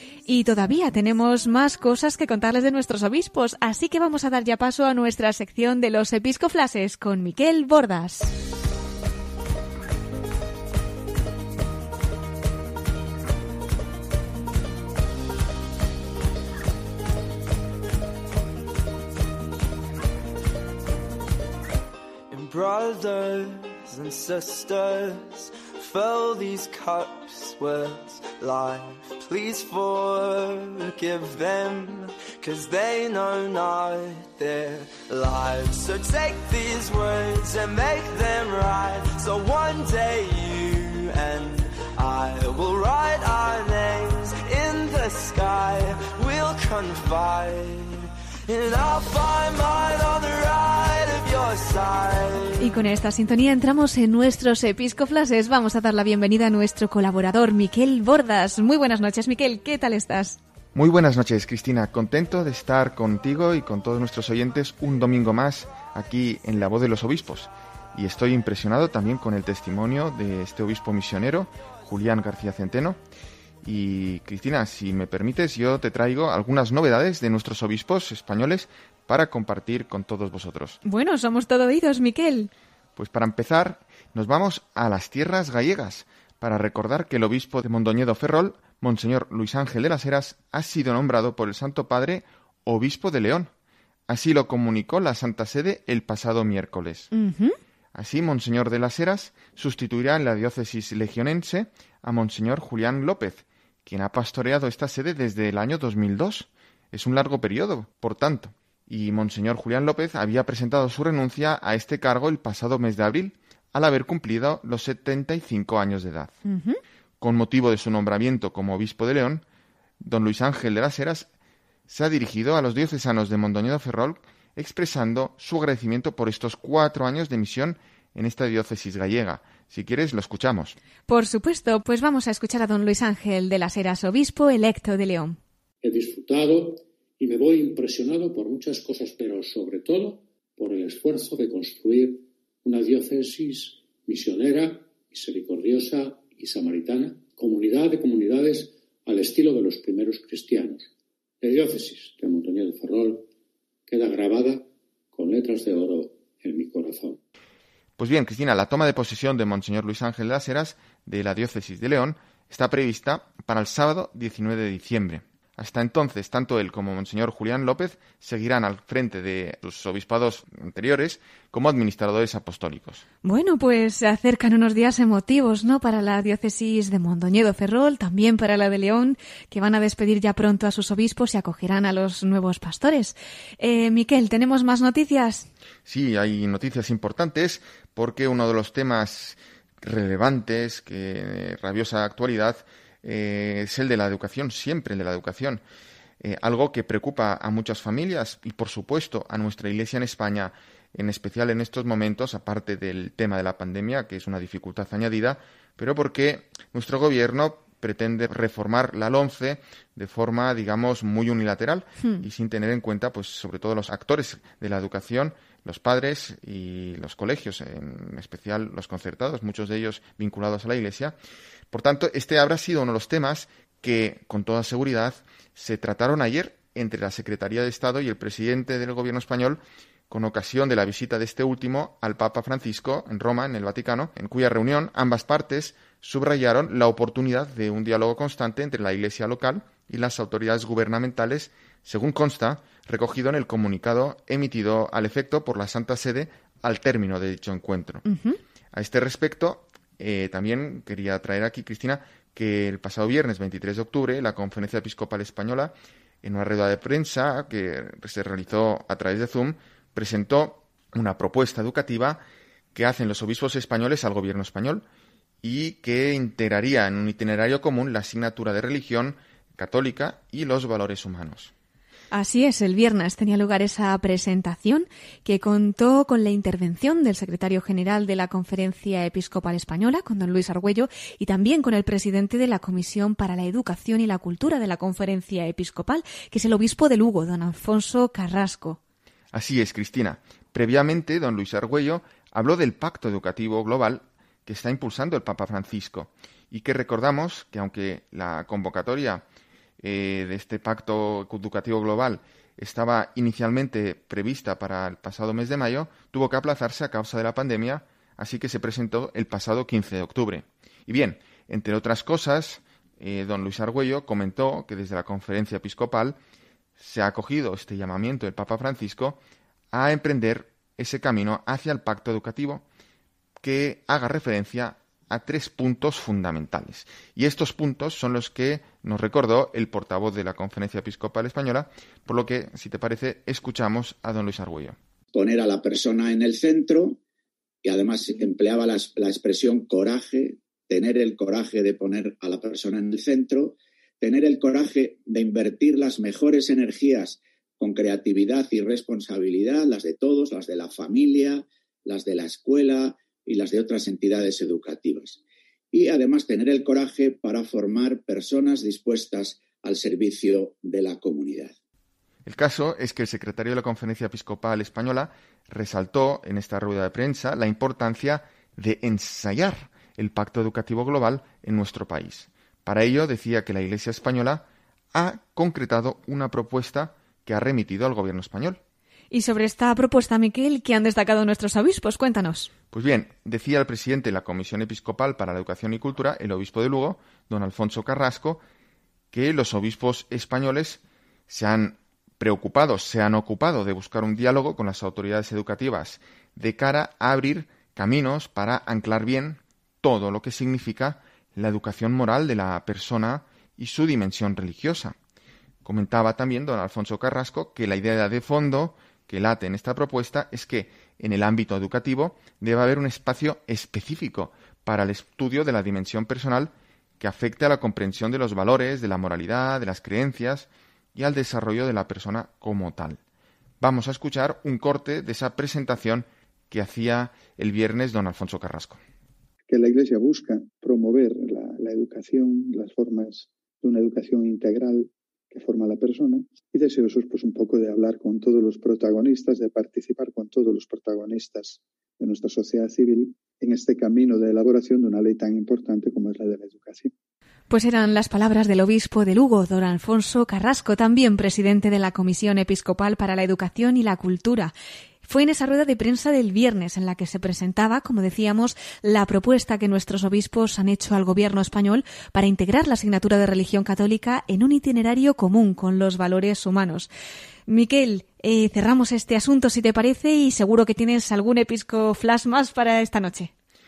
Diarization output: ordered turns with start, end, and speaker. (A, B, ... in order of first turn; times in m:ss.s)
0:00.3-0:08.3 A
0:22.3-0:52.6 B
0:52.6-1:00.4 A
1:00.7-1:13.0 C
1:13.6-1:20.8 C
1:20.8-1:22.5 A
1:23.0-1:33.5 C
1:34.1-1:37.1 C
1:37.1-1:37.6 A
1:37.9-1:56.4 C
1:56.4-1:56.8 A
1:57.2-1:59.4 C
2:00.0-2:01.3 C
2:01.9-2:10.8 C
2:11.1-2:15.4 A
2:15.8-2:30.9 D
2:31.4-2:33.3 D
2:33.9-2:37.2 D
2:38.0-2:53.0 C
2:53.2-3:05.5 A
3:05.8-3:15.6 C
3:16.2-3:41.2 C
3:41.7-4:08.0 C
4:08.0-4:08.4 A
4:08.7-4:22.2 C
4:22.7-4:24.8 C
4:25.4-4:31.5 C
4:32.1-4:48.8 A
4:49.3-4:59.2 C
4:59.8-5:16.2 C
5:16.8-5:19.2 C
5:19.7-5:22.6 C
5:23.4-5:34.8 C
5:35.1-5:37.0 E
5:37.6-5:55.2 E
5:55.7-6:01.5 E
6:02.2-6:18.6 C
6:19.1-6:22.5 A
6:22.7-6:28.4 C
6:29.1-6:45.0 C
6:45.6-7:03.0 C
7:03.6-7:08.8 C
7:09.5-7:26.9 F
7:27.5-7:34.5 A
7:35.0-7:46.9 A
7:47.5-7:53.3 A